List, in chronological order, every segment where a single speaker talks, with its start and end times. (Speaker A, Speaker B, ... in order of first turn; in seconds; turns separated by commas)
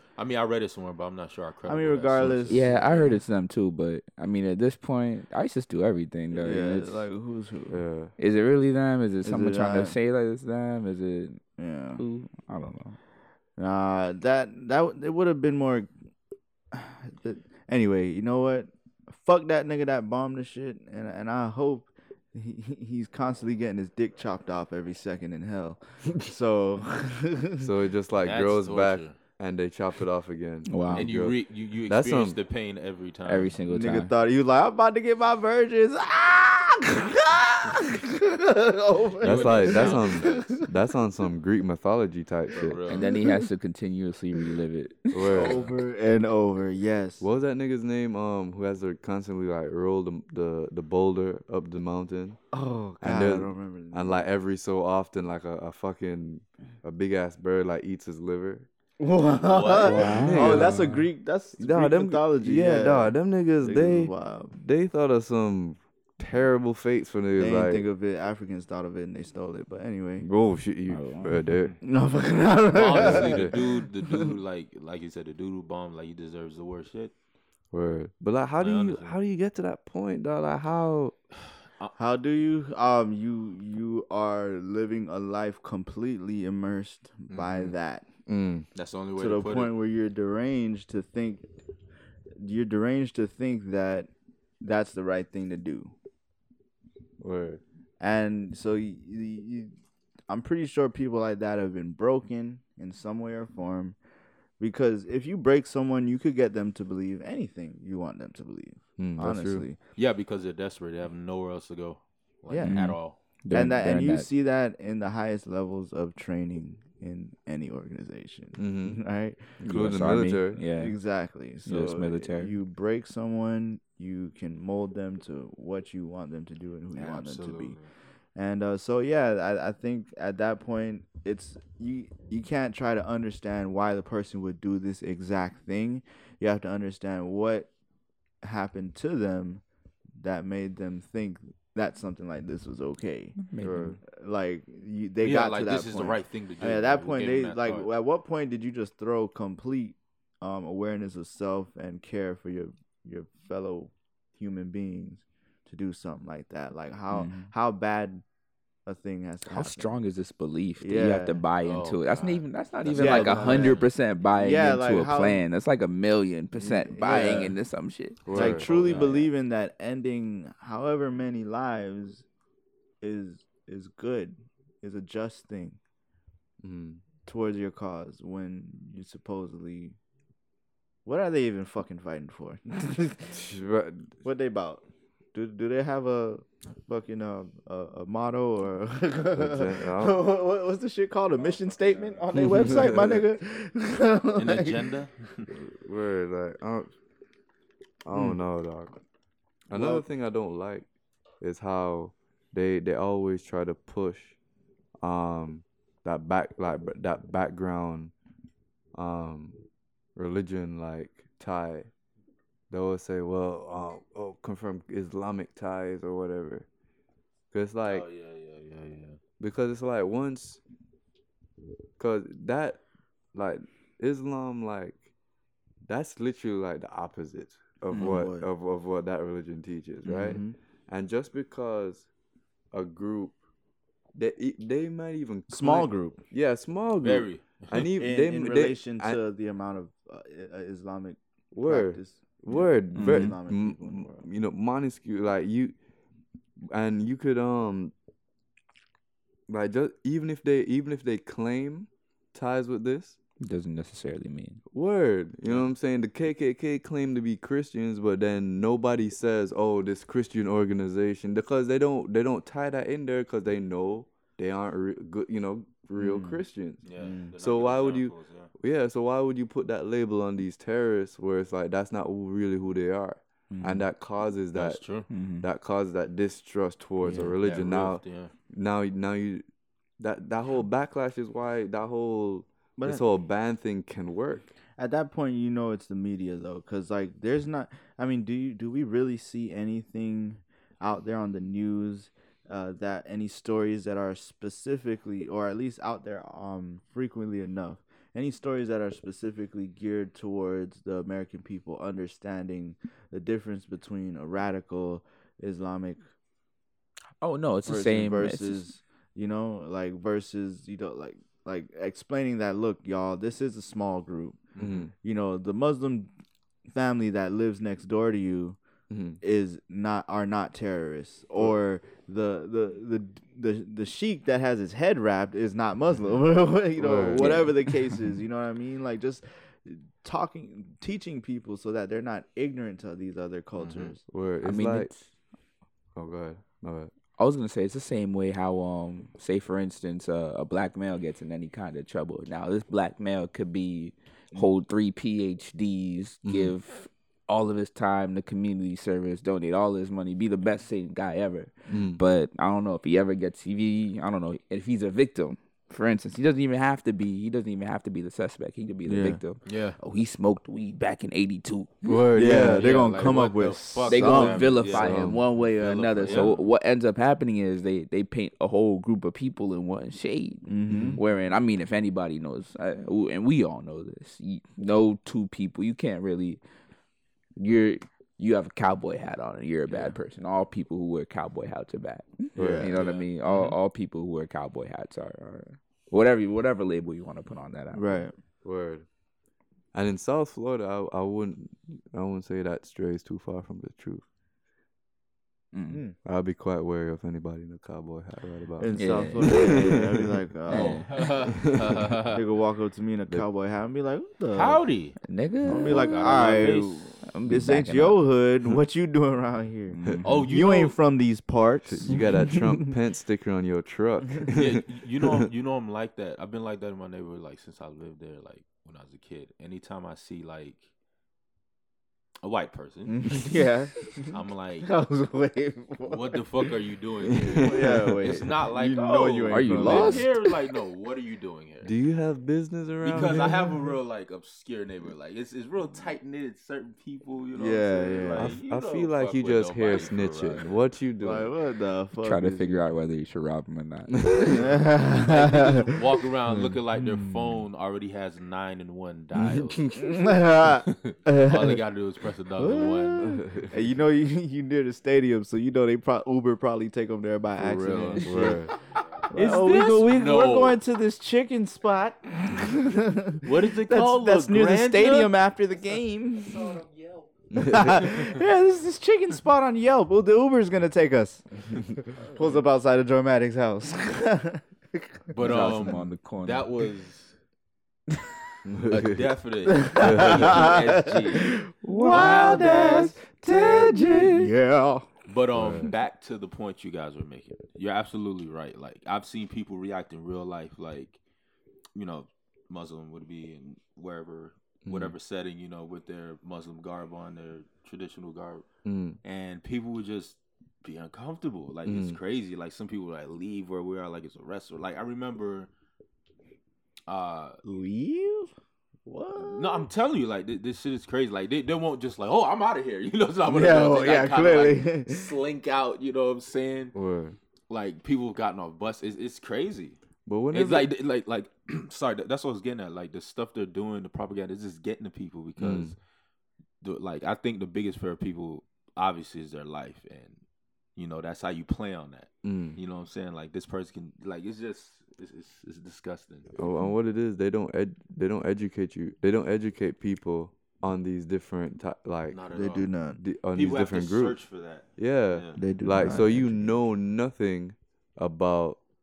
Speaker A: 0.2-3.2, Speaker B: 1.7-2.7, Speaker C: 2.5-7.1, Speaker B: 6.3-7.8, Speaker D: 7.7-8.1, Speaker C: 8.2-11.4, Speaker B: 9.2-10.0, Speaker B: 11.6-12.0, Speaker C: 12.0-13.0, Speaker B: 13.6-15.9, Speaker B: 16.7-27.7, Speaker D: 27.6-32.4, Speaker A: 28.2-29.1, Speaker C: 30.7-31.1, Speaker A: 30.9-33.6, Speaker C: 33.2-34.1, Speaker B: 33.7-40.7, Speaker A: 39.2-40.6, Speaker D: 39.2-42.8, Speaker A: 42.5-43.1, Speaker C: 42.6-45.3, Speaker B: 43.0-43.4, Speaker D: 45.1-45.7, Speaker B: 45.2-47.3, Speaker A: 45.3-45.8, Speaker D: 47.2-52.4, Speaker B: 52.5-54.2, Speaker D: 53.0-58.7, Speaker B: 59.0-64.6, Speaker A: 59.4-60.6, Speaker C: 59.8-61.1, Speaker D: 60.1-60.8, Speaker D: 61.6-67.8, Speaker B: 67.4-70.3, Speaker D: 70.2-71.8, Speaker C: 70.9-71.4, Speaker B: 71.8-74.4, Speaker A: 72.7-77.1, Speaker D: 73.0-73.6, Speaker D: 77.7-81.2, Speaker A: 78.6-79.2, Speaker B: 82.0-88.1, Speaker A: 87.3-87.8, Speaker D: 88.3-88.7, Speaker A: 88.8-89.8, Speaker B: 89.2-91.5, Speaker B: 92.4-95.9, Speaker D: 97.2-97.6, Speaker B: 98.0-99.7, Speaker B: 100.3-104.0, Speaker B: 104.6-109.8, Speaker D: 109.0-109.7, Speaker A: 110.0-113.2, Speaker B: 112.5-112.8, Speaker C: 112.6-114.3, Speaker B: 113.5-119.6, Speaker D: 118.6-119.0, Speaker D: 119.6-120.6, Speaker C: 119.6-121.0, Speaker B: 120.7-127.8, Speaker C: 121.6-122.5, Speaker A: 126.9-127.9, Speaker B: 128.3-137.7, Speaker B: 138.4-139.6, Speaker B: 140.2-143.4, Speaker C: 143.4-144.0, Speaker D: 143.6-144.0, Speaker B: 144.0-158.2, Speaker A: 145.2-147.9, Speaker C: 157.1-157.5, Speaker B: 158.9-159.9, Speaker C: 159.5-168.2, Speaker B: 160.8-161.4, Speaker A: 161.6-163.9, Speaker B: 162.9-165.4, Speaker B: 166.6-167.6, Speaker D: 168.2-168.7, Speaker A: 168.3-169.3, Speaker B: 168.3-172.2, Speaker B: 173.0-175.8, Speaker D: 176.6-177.0, Speaker B: 177.3-180.0, Speaker B: 181.1-183.4, Speaker D: 183.3-184.2, Speaker B: 184.2-194.9, Speaker D: 189.3-190.2, Speaker A: 191.4-192.3, Speaker D: 192.4-193.2, Speaker A: 194.4-195.5, Speaker D: 195.5-196.9, Speaker D: 198.1-199.0, Speaker B: 198.1-198.4, Speaker D: 199.7-200.9, Speaker B: 199.7-200.1, Speaker D: 201.4-204.4, Speaker D: 205.0-208.1, Speaker D: 208.9-209.6, Speaker D: 210.2-211.9, Speaker D: 212.7-216.7, Speaker D: 217.5-218.1, Speaker A: 217.9-219.2, Speaker D: 219.4-220.6, Speaker D: 222.0-222.8, Speaker D: 223.3-225.1, Speaker D: 225.8-232.1, Speaker B: 227.9-228.5, Speaker B: 230.1-230.6, Speaker D: 232.7-233.4, Speaker D: 234.2-239.2, Speaker B: 235.5-236.2, Speaker A: 237.0-237.9, Speaker B: 238.0-244.2, Speaker D: 241.5-245.8, Speaker C: 242.9-243.4, Speaker D: 246.7-247.9, Speaker D: 249.5-253.2, Speaker C: 253.4-254.6, Speaker D: 254.7-266.8, Speaker B: 266.0-266.4, Speaker A: 266.9-268.5, Speaker B: 267.0-267.3, Speaker D: 267.4-274.8, Speaker C: 273.5-273.9, Speaker A: 274.5-275.1, Speaker C: 275.1-275.5, Speaker D: 275.4-279.4, Speaker B: 277.0-277.3, Speaker A: 277.4-278.3, Speaker D: 280.0-284.5, Speaker B: 282.8-283.0, Speaker B: 284.8-306.0, Speaker C: 307.2-308.7, Speaker B: 307.7-316.1, Speaker A: 314.6-314.8, Speaker D: 314.6-314.9, Speaker B: 316.7-318.6, Speaker D: 318.9-319.2, Speaker B: 319.2-334.0, Speaker D: 326.8-327.5, Speaker C: 327.2-327.9, Speaker A: 333.6-333.9, Speaker D: 334.1-334.9, Speaker C: 334.4-335.1, Speaker D: 335.9-336.9, Speaker C: 337.2-362.0, Speaker D: 346.2-346.5, Speaker D: 351.7-352.0, Speaker B: 358.9-359.2, Speaker A: 359.4-359.8, Speaker D: 361.8-362.7, Speaker B: 362.1-364.8, Speaker A: 362.3-366.4, Speaker C: 363.9-376.4, Speaker D: 364.7-365.2, Speaker B: 366.1-366.3, Speaker B: 370.5-371.0, Speaker D: 370.7-371.0, Speaker C: 377.4-388.0, Speaker D: 382.4-382.7, Speaker B: 382.4-382.8, Speaker A: 382.7-383.4, Speaker B: 387.7-388.1, Speaker D: 388.4-388.9, Speaker D: 389.7-394.0, Speaker C: 395.5-395.8, Speaker B: 395.7-396.0, Speaker D: 396.1-400.1, Speaker B: 398.6-401.4, Speaker C: 398.8-399.8, Speaker C: 400.5-400.9, Speaker A: 400.5-402.2, Speaker D: 401.4-401.8, Speaker B: 402.0-404.6, Speaker A: 404.3-405.0, Speaker C: 405.0-406.1, Speaker B: 405.5-412.7, Speaker A: 405.5-407.0, Speaker C: 407.1-408.0, Speaker C: 409.7-410.3, Speaker A: 410.1-410.8, Speaker D: 411.7-415.2, Speaker A: 414.4-420.7, Speaker A: 422.2-423.2, Speaker B: 422.9-426.5, Speaker A: 424.1-424.7, Speaker A: 425.9-431.7, Speaker D: 427.0-428.0, Speaker B: 427.3-430.5, Speaker C: 429.3-430.1, Speaker D: 431.6-433.4, Speaker A: 432.8-440.5, Speaker B: 433.1-433.5, Speaker B: 437.4-438.4, Speaker D: 438.2-441.3, Speaker B: 441.0-442.7, Speaker C: 442.0-444.3, Speaker D: 444.0-444.4, Speaker B: 444.2-445.7, Speaker A: 444.4-453.1, Speaker B: 446.7-447.4, Speaker D: 449.2-449.8, Speaker B: 449.7-451.6, Speaker B: 452.4-458.6, Speaker D: 453.0-453.5, Speaker A: 457.4-458.4, Speaker D: 458.0-458.5, Speaker B: 459.1-466.6, Speaker A: 459.1-460.6, Speaker A: 463.2-465.1, Speaker D: 467.3-467.9, Speaker B: 467.4-475.5, Speaker A: 475.1-477.2, Speaker C: 475.2-476.5, Speaker D: 478.4-479.1, Speaker A: 478.7-484.0, Speaker B: 479.5-484.9, Speaker D: 479.8-480.5, Speaker C: 481.6-484.3, Speaker A: 485.1-491.0, Speaker D: 485.3-485.7, Speaker A: 491.8-498.4, Speaker D: 494.6-494.9, Speaker D: 498.6-499.0, Speaker A: 499.0-505.5, Speaker D: 501.6-502.0, Speaker A: 506.9-507.4, Speaker B: 507.4-508.3, Speaker B: 508.9-509.7, Speaker A: 509.2-516.7, Speaker B: 513.3-515.1, Speaker D: 516.7-517.2, Speaker A: 517.5-519.8, Speaker D: 520.1-520.7, Speaker A: 520.3-525.8, Speaker D: 525.4-525.7, Speaker A: 526.6-530.2, Speaker A: 530.8-536.3, Speaker D: 532.2-532.6, Speaker D: 536.4-542.2, Speaker A: 542.1-542.7, Speaker B: 542.3-543.0, Speaker D: 543.0-544.2, Speaker A: 543.3-545.4, Speaker D: 544.8-548.6, Speaker B: 545.4-546.4